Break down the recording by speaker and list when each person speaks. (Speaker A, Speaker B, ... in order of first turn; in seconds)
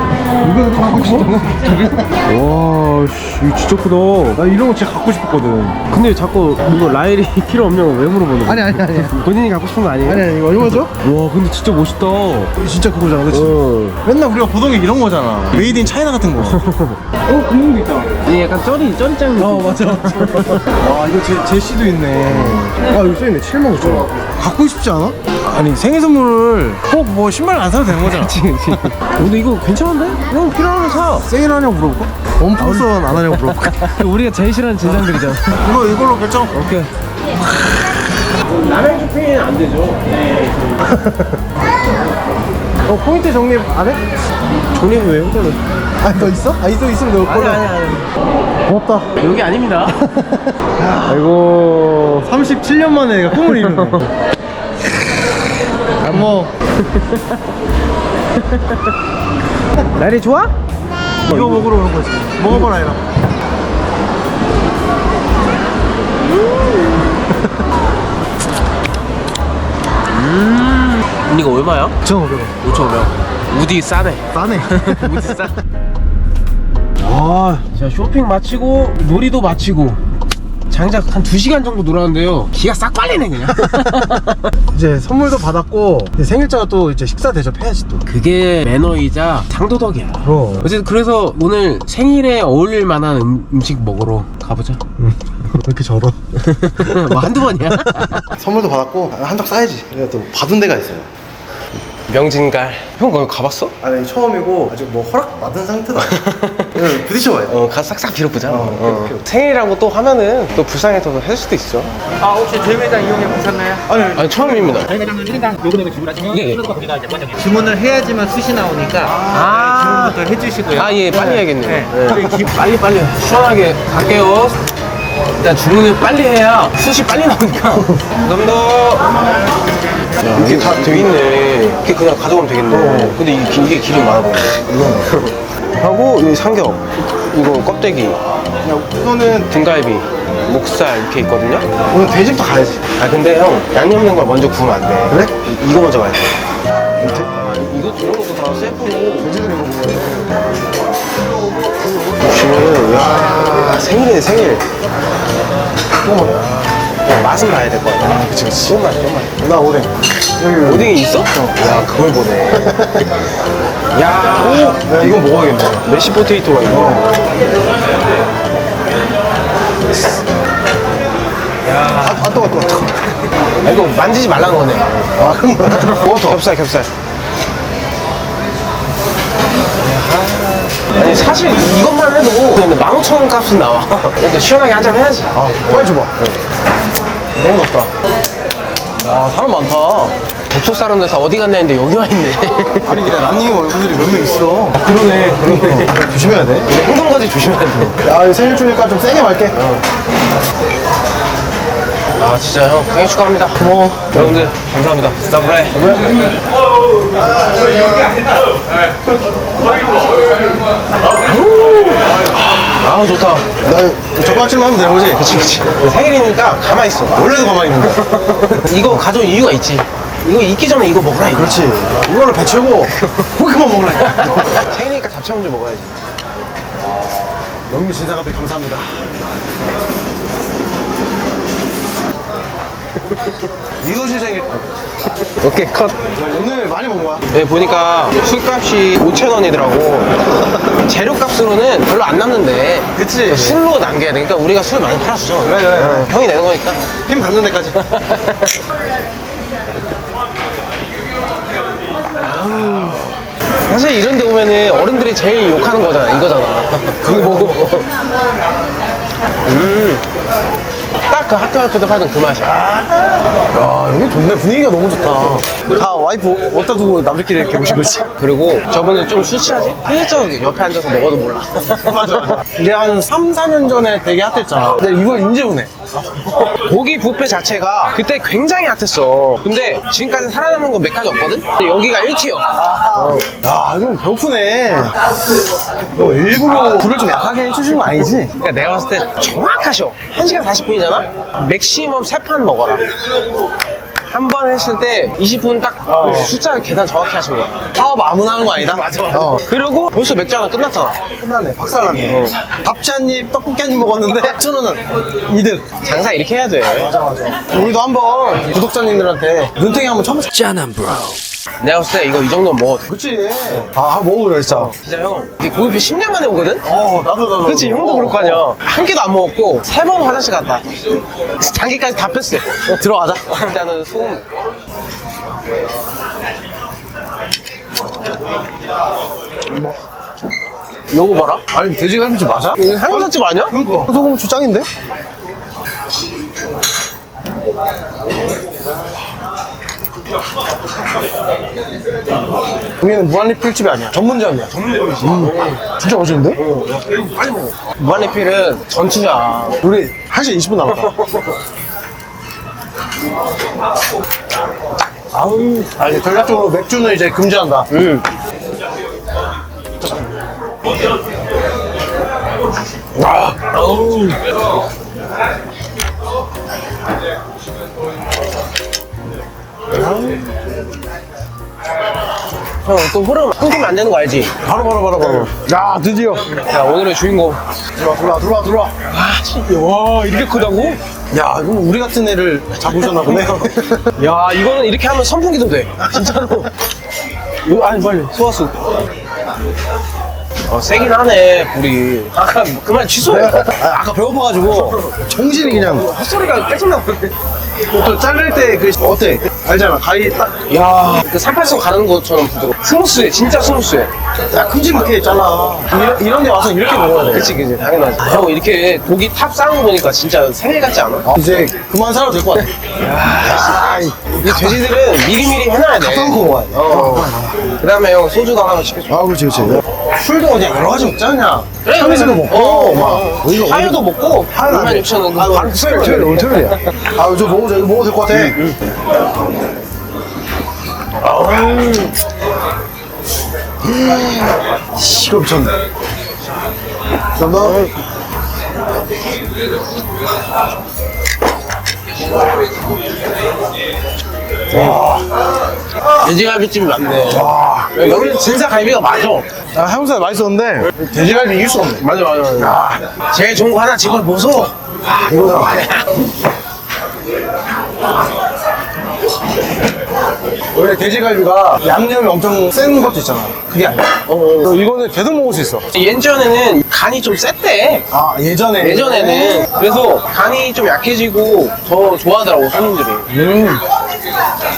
Speaker A: 0.4-2.1, 4.3-5.8, 8.4-9.2, 10.0-11.0, 12.5-16.6, 17.2-18.2, 19.4-28.9, 31.2-33.8, 34.8-36.6, 40.8-41.4, 42.9-44.0, 46.0-47.6, 48.6-49.1, 50.0-51.2, 52.2-54.1, 56.0-56.5, 61.3-63.0, 72.0-72.6, 74.3-75.5, 77.0-77.7, 84.7-88.0, 90.2-90.7, 95.0-96.2, 98.2-101.1, 103.8-107.6, 108.5-109.2, 113.8-114.8, 119.0-120.5, 130.3-131.1, 132.7-133.2, 134.7-135.0, 138.6-139.5, 141.9-142.8, 145.1-145.3, 147.0-147.3, 149.2-150.3, 153.0-153.7, 156.0-156.4, 158.0-158.8, 159.3-161.5, 162.6-163.1, 164.4-165.8, 166.7-167.1, 172.0-172.9, 175.2-176.4, 185.3-186.1, 187.3-187.9, 189.0-190.1, 192.8-196.7, 198.0-199.6, 203.6-204.1, 213.6-215.2, 217.1-218.7, 221.3-224.6, 227.7-228.9, 233.8-234.7, 236.0-237.2, 242.9-243.6, 245.4-246.1, 247.0-247.8, 257.0-257.7, 262.6-268.1, 271.7-275.9, 282.5-284.9, 285.8-288.3, 295.8-296.3, 297.7-299.5, 301.1-305.7, 306.8-310.3, 312.9-314.7, 316.6-318.4, 322.6-323.4, 331.5-334.7, 342.8-346.4, 349.6-350.9, 355.1-357.7, 369.7-370.3, 374.4-376.3, 377.8-378.8, 381.1-383.9, 385.8-386.4, 393.1-395.9, 397.7-400.4, 404.3-407.4, 411.0-412.5, 413.1-414.6, 415.8-417.4, 418.9-428.4, 433.6-435.5, 437.1-437.6, 444.5-445.1, 447.1-447.8, 449.5-451.8, 452.4-452.9, 454.9-455.6, 460.5-465.7, 467.9-469.5, 473.1-473.6
Speaker B: 0.8-1.3, 2.1-4.4, 5.9-10.3, 10.9-12.5, 13.3-14.0, 16.4-17.0, 18.2-20.6, 22.3-22.6, 23.8-24.1, 28.0-31.3, 32.6-35.7, 36.5-36.9, 38.3-40.9, 44.7-45.6, 47.2-48.1, 49.2-50.0, 51.0-52.3, 53.3-54.1, 56.0-57.4, 58.3-58.9, 59.9-60.5, 61.2-61.7, 62.5-62.7, 66.4-67.2, 70.1-72.0, 72.6-75.5, 77.7-80.0, 80.7-84.5, 88.0-94.8, 96.4-98.3, 102.1-103.7, 106.0-106.8, 107.5-111.9, 114.0-115.0, 116.1-117.0, 119.2-124.6, 125.4-129.2, 130.2-138.2, 139.4-141.8, 142.8-146.3, 147.0-149.3, 151.8-154.6, 156.3-159.3, 160.4-162.8, 163.9-165.2, 165.8-167.1, 171.7-172.3, 173.6-175.2, 175.7-176.9, 179.8-186.3, 190.5-193.2, 194.8-196.1, 196.7-198.0, 199.5-199.8, 202.2-206.2, 211.0-213.6, 215.1-221.6, 224.1-226.0, 235.3-236.0, 237.3-246.8, 247.8-248.6, 252.2-253.1, 253.7-257.9, 259.4-260.0, 261.1-262.7, 268.2-272.4, 276.3-283.3, 288.4-292.8, 294.1-297.7, 298.6-301.1, 302.1-302.4, 305.8-306.9, 311.6-312.9, 314.5-316.6, 317.4-320.6, 321.4-322.6, 323.3-324.3, 330.9-331.4, 332.6-333.6, 344.5-345.6, 346.3-349.6, 350.7-351.4, 355.2-355.5, 357.7-358.1, 362.9-364.2, 372.6-374.4, 376.3-377.4, 378.9-380.8, 382.7-383.4, 384.0-386.5, 387.4-388.5, 390.5-393.5, 394.4-397.1, 400.5-403.9, 407.1-411.2, 412.8-419.0, 421.6-426.6, 428.1-428.6, 431.0-432.0, 437.4-437.8, 444.5-444.8, 445.9-449.3, 451.8-456.0, 464.1-464.5, 465.7-467.9, 468.6-473.1
Speaker C: 112.2-113.9, 114.9-121.0, 121.6-122.0, 310.3-311.2